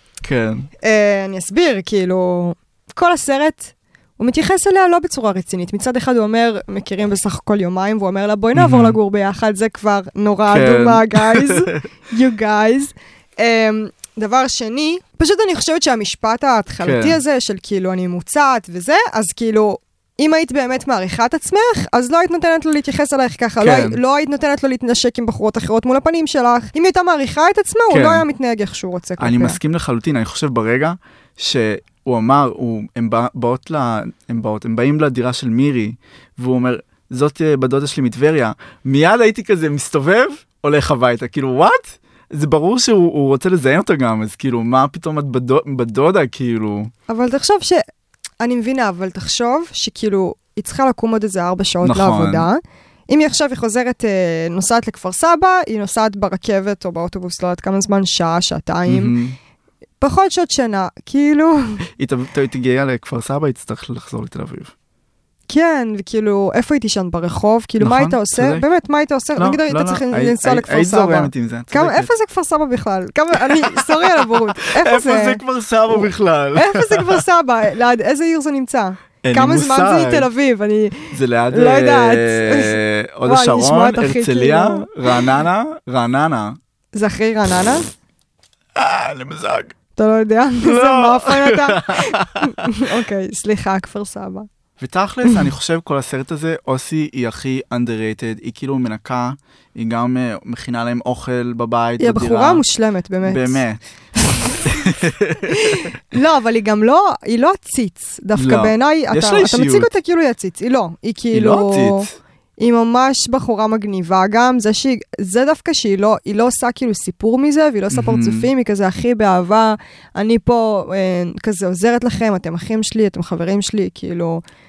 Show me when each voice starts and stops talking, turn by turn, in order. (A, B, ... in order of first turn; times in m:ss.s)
0:00.2-0:00.7 A
0:00.8-0:29.6 B
0:08.6-0:09.0 A
0:10.5-0:11.8 A
0:16.8-0:17.2 A
0:23.6-0:24.0 A
0:27.9-0:28.2 A
0:29.2-0:46.9 A
0:47.1-0:47.8 B
0:48.4-0:59.2 B
0:51.8-0:52.5 A
0:58.9-0:59.4 A
1:00.0-1:01.8 B
1:02.0-1:04.7 A
1:05.5-1:24.9 B
1:07.8-1:08.6 A
1:09.4-1:12.1 A
1:13.3-1:17.2 A
1:19.2-1:20.3 A
1:21.1-1:26.6 A
1:27.0-1:27.9 B
1:28.8-1:29.7 A
1:30.0-1:34.5 B
1:30.6-1:32.9 A
1:34.8-1:42.6 A
1:42.0-1:43.6 B
1:43.2-1:43.8 A
1:44.2-1:44.7 B
1:44.6-1:45.5 A
1:45.5-2:04.4 B
1:48.4-1:49.9 A
1:51.3-1:52.2 A
1:57.9-1:58.5 A